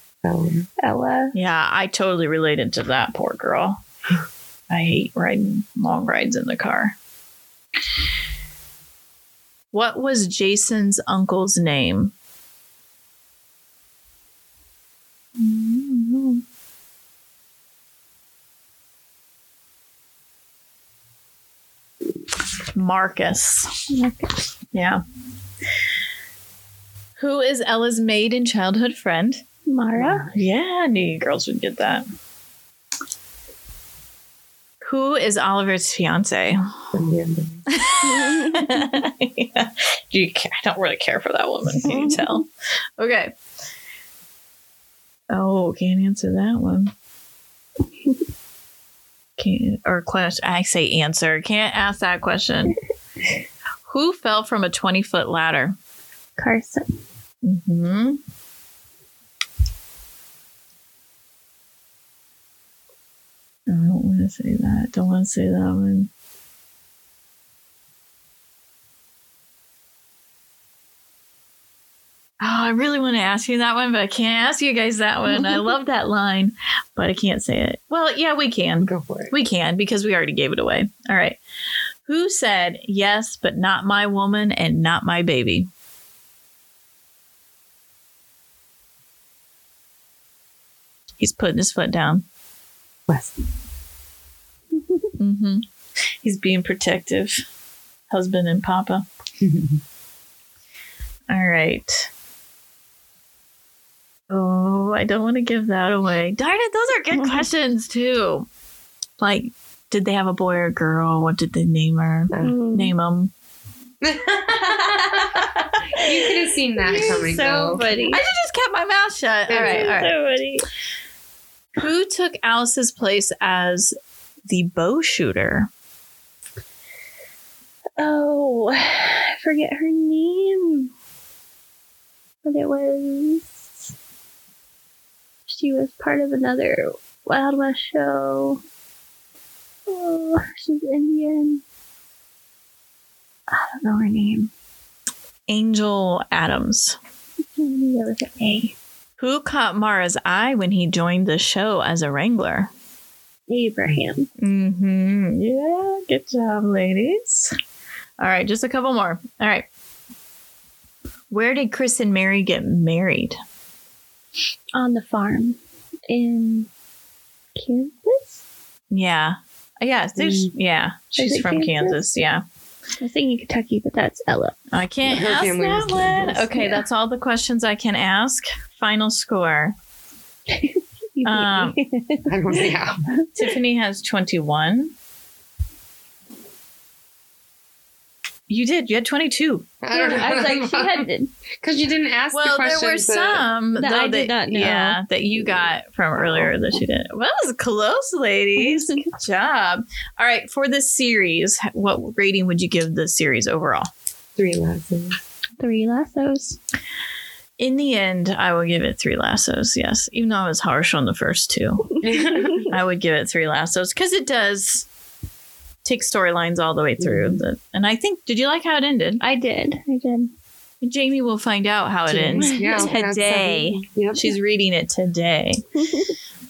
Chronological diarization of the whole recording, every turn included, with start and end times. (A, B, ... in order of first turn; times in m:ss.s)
0:00.2-0:00.7 A
0:00.8-0:01.3 B
0:01.3-0:03.8 C
0:04.7-0:07.0 C
0:09.7-0:12.1 C
0:15.4-0:16.4 C
0:22.7-0:23.7 C
0:23.9-0:24.3 B
0:24.7-0:25.0 C
0:27.2-0:29.4 C
0:29.7-0:30.3 B
0:30.0-0:30.4 A
0:30.3-0:32.1 C
0:34.8-0:36.6 C
0:37.0-0:37.6 A
0:37.7-0:42.5 C
0:38.0-0:38.9 B
0:41.8-0:42.4 B
0:43.0-0:43.3 C
0:45.3-0:46.9 C
0:49.4-0:52.8 C
0:53.9-0:55.8 C
0:56.4-0:56.8 B
0:57.4-0:58.2 C
1:03.7-1:06.1 C
1:12.4-1:21.4 C
1:18.8-1:19.3 A
1:22.1-1:25.7 C
1:31.2-1:32.2 C
1:33.1-1:33.4 A
1:34.8-1:35.0 B
1:35.2-1:35.6 C
1:36.2-1:37.4 C
1:38.1-1:39.1 C
1:39.4-1:39.8 A
1:41.3-1:42.1 C
1:44.3-1:48.5 C
1:49.2-1:53.3 C
1:52.3-1:52.6 A
1:52.4-1:52.9 B
1:54.0-1:57.9 A
1:54.5-1:56.2 C
1:56.8-1:58.2 B
1:57.2-2:00.2 C
1:59.5-1:59.9 A
1:59.5-2:00.7 B
2:01.8-2:03.9 C
2:04.5-2:05.7 C
2:08.0-2:10.9 B
2:12.4-2:13.9 B
2:15.5-2:18.6 B
2:19.9-2:21.6 B
2:23.5-2:24.5 B
2:25.5-2:27.0 C
2:27.6-2:28.7 B
2:29.2-2:32.7 C
2:33.5-2:34.3 B
2:34.4-2:37.5 C
2:38.2-2:39.7 C
2:41.3-2:43.4 C
2:44.8-2:45.6 B
2:46.1-2:46.7 B
2:47.6-2:48.4 B
2:48.9-2:52.4 C
2:50.2-2:50.5 A
2:51.2-2:52.0 B
2:53.0-2:54.6 B
2:54.7-2:59.8 C
2:55.1-2:56.5 A
2:56.6-2:56.8 B
3:00.5-3:02.3 B
3:01.2-3:01.8 C
3:02.3-3:03.1 A
3:03.2-3:03.5 B
3:03.4-3:04.9 C
3:08.5-3:09.8 C
3:09.8-3:11.0 A
3:09.9-3:11.3 B
3:11.6-3:13.5 A
3:12.3-3:23.9 C
3:13.8-3:15.0 B
3:16.2-3:16.8 A
3:18.6-3:19.0 B
3:24.4-3:25.2 A
3:25.6-3:26.6 B
3:27.6-3:32.0 C
3:32.0-3:32.7 B
3:32.0-3:32.6 A
3:32.7-3:34.9 C
3:35.8-3:39.2 C
3:37.0-3:37.4 A
3:39.2-3:40.3 B
3:40.8-3:45.8 C
3:42.1-3:44.4 A
3:42.4-3:43.0 B
3:45.9-3:46.1 B